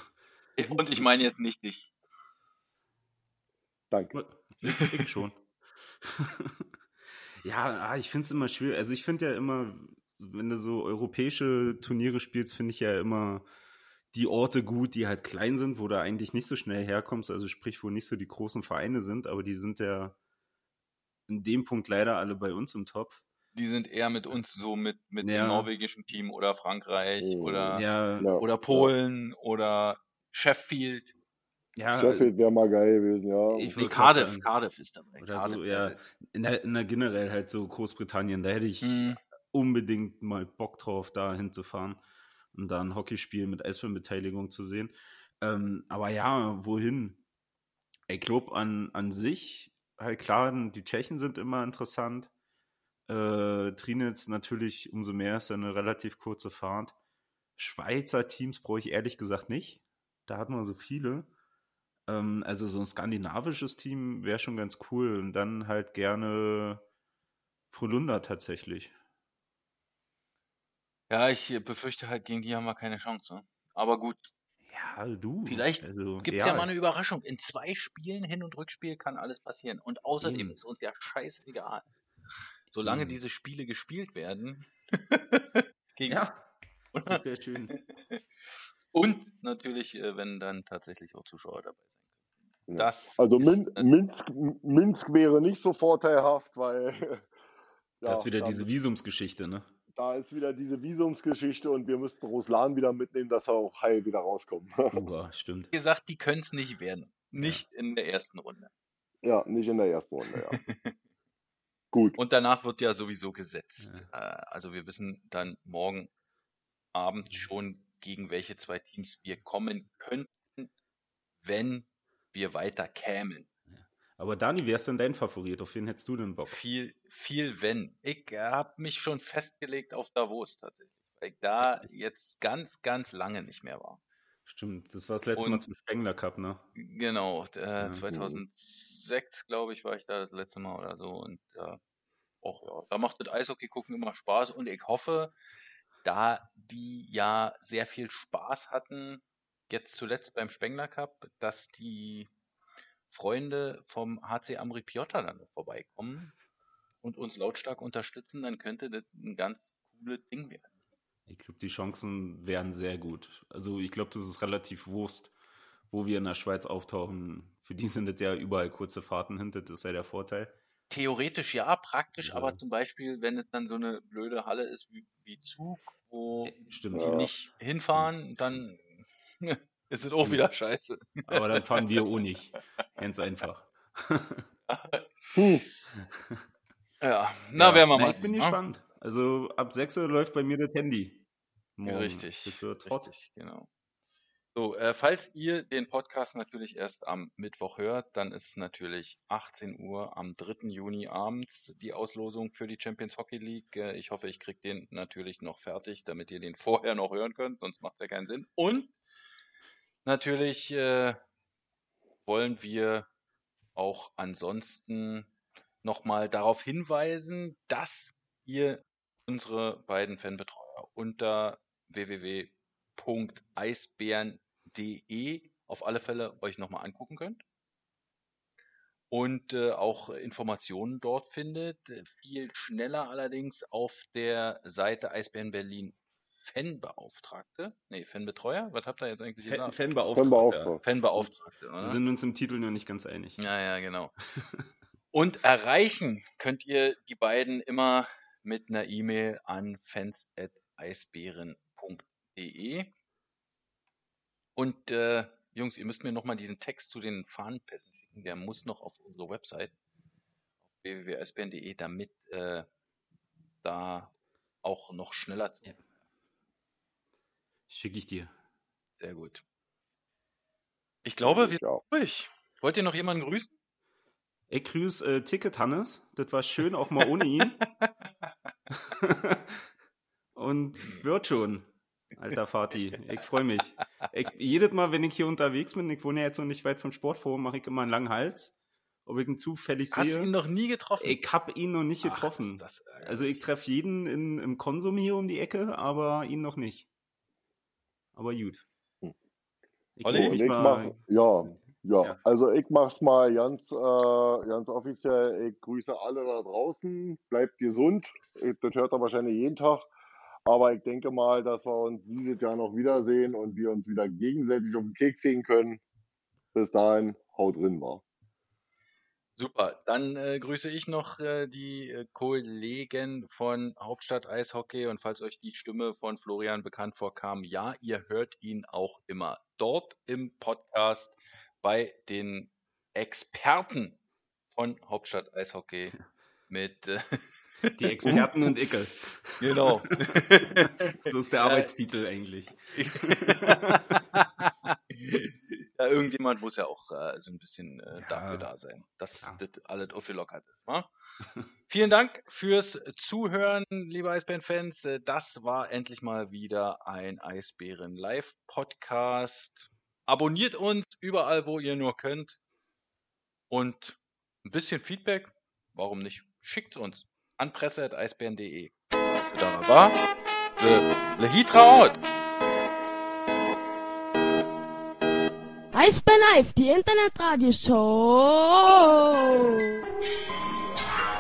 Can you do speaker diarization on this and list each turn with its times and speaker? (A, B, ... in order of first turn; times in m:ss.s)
0:00.6-0:01.9 A
0:03.9-0:04.2 B
0:04.1-0:05.4 C
0:04.6-0:05.1 A
0:06.0-0:06.6 C
0:07.4-0:13.4 C
0:14.1-0:20.2 C
0:21.3-0:23.2 C
0:23.6-0:27.9 A
0:25.2-0:25.7 C
0:27.2-0:28.9 B
0:27.8-0:28.3 C
0:28.4-0:31.1 A
0:31.8-0:32.3 C
0:31.9-0:33.7 B
0:33.5-0:34.5 C
0:33.8-0:36.1 A
0:35.2-0:42.0 C
0:38.8-0:39.2 A
0:42.5-0:47.2 C
0:48.1-0:52.3 C
0:53.1-0:56.9 C
0:57.6-1:01.3 C
1:02.1-1:06.8 C
1:07.7-1:08.9 C
1:11.1-1:14.3 A
1:14.7-1:16.7 C
1:15.5-1:21.8 A
1:20.2-1:20.6 C
1:22.7-1:26.2 A
1:22.8-1:23.2 C
1:26.1-1:26.4 C
1:26.9-1:27.2 A
1:27.1-1:27.8 C
1:27.8-1:28.2 A
1:28.9-1:31.8 A
1:32.7-1:37.3 B
1:32.8-1:33.9 A
1:38.0-1:38.7 B
1:38.0-1:39.7 C
1:40.0-1:45.0 B
1:44.9-1:45.7 C
1:45.7-1:48.7 A
1:47.4-1:47.6 C
1:49.2-1:50.6 B
1:50.6-1:51.0 A
1:51.9-1:52.2 B
1:52.2-1:56.1 A
1:53.8-1:54.0 C
1:56.9-2:00.7 A
2:01.4-2:03.5 A
2:03.7-2:06.6 C
2:06.5-2:14.0 A
2:14.5-2:16.7 C
2:15.4-2:15.6 A
2:16.8-2:21.8 A
2:17.8-2:18.4 C
2:22.4-2:25.4 A
2:26.0-2:32.3 A
2:33.1-2:36.3 A
2:37.0-2:40.7 A
2:41.3-2:45.3 C
2:45.9-2:50.5 C
2:50.9-3:02.0 A
2:52.2-2:52.6 C
2:56.5-2:57.3 C
2:56.9-2:57.3 B
2:57.9-2:58.6 C
3:01.3-3:04.5 C
3:04.7-3:05.6 A
3:05.4-3:05.6 B
3:06.0-3:06.4 C
3:07.0-3:08.6 A
3:07.6-3:11.2 C
3:11.8-3:13.1 C
3:11.8-3:13.7 A
3:14.5-3:28.9 A
3:30.0-3:31.2 A
3:32.3-3:33.1 A
3:33.8-3:35.3 A
3:35.8-3:47.4 A
3:49.1-3:59.8 A
3:59.4-4:00.8 C
4:00.2-4:00.8 B
4:00.8-4:02.0 A
4:01.8-4:03.4 C
4:03.4-4:04.1 A
4:04.4-4:04.6 C
4:05.1-4:12.9 A
4:14.6-4:19.7 A
4:20.8-4:22.7 A
4:23.6-4:25.7 A
4:27.7-4:28.3 C
4:29.0-4:29.4 A
4:31.0-4:33.6 A
4:31.2-4:31.8 B
4:34.5-4:37.6 C
4:37.6-4:37.9 A
4:38.9-4:39.6 C
4:40.4-4:48.5 C
4:49.0-4:50.3 C
4:49.9-4:51.2 A
4:51.0-4:56.9 C
4:52.0-4:53.5 A
4:58.2-4:58.6 C
5:00.0-5:02.2 C
5:00.0-5:00.5 A
5:00.1-5:09.9 B
5:10.5-5:15.8 B
5:16.5-5:18.0 B
5:19.4-5:34.0 A
5:34.5-5:36.0 A
5:36.5-5:38.3 A
5:37.8-5:39.7 C
5:39.4-5:41.7 A
5:41.0-5:43.8 C
5:42.8-5:50.9 A
5:48.0-5:48.5 C
5:51.7-6:02.4 A
6:03.5-6:08.7 A
6:09.3-6:10.0 A
6:10.6-6:12.0 A
6:15.7-6:19.6 D